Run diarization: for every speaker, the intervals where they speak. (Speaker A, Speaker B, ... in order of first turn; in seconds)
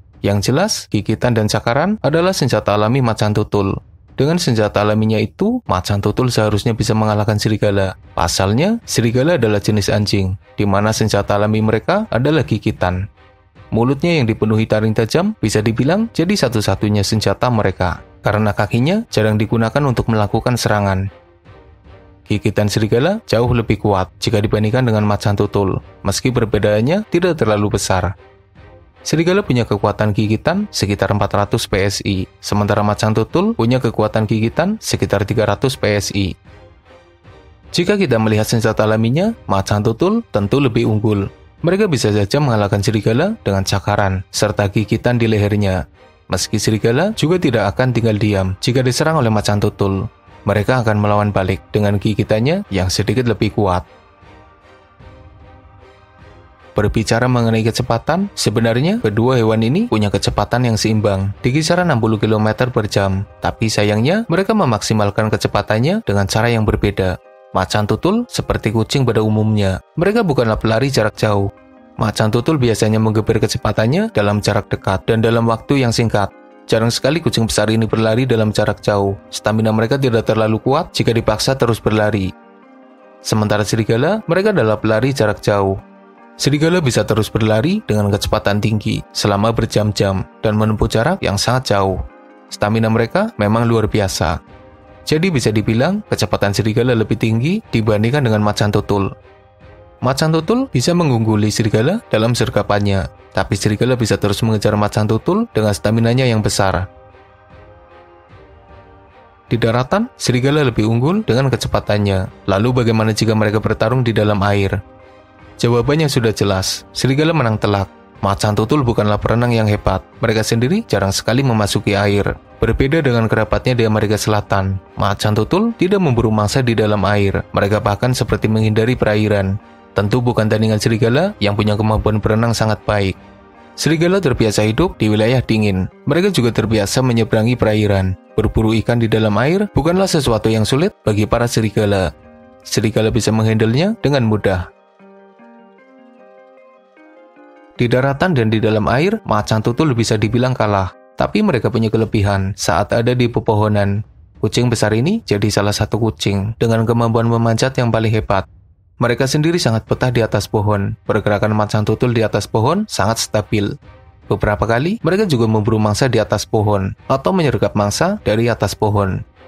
Speaker A: 0.2-13.1, 13.7-21.1, 22.3-28.1, 29.1-36.3, 37.7-53.9, 56.8-82.3, 83.2-85.8, 86.4-94.4, 95.1-99.1, 100.0-106.9, 109.5-114.8, 115.6-133.2, 133.8-142.1, 142.7-144.7, 147.8-158.5, 159.0-163.7, 164.3-169.2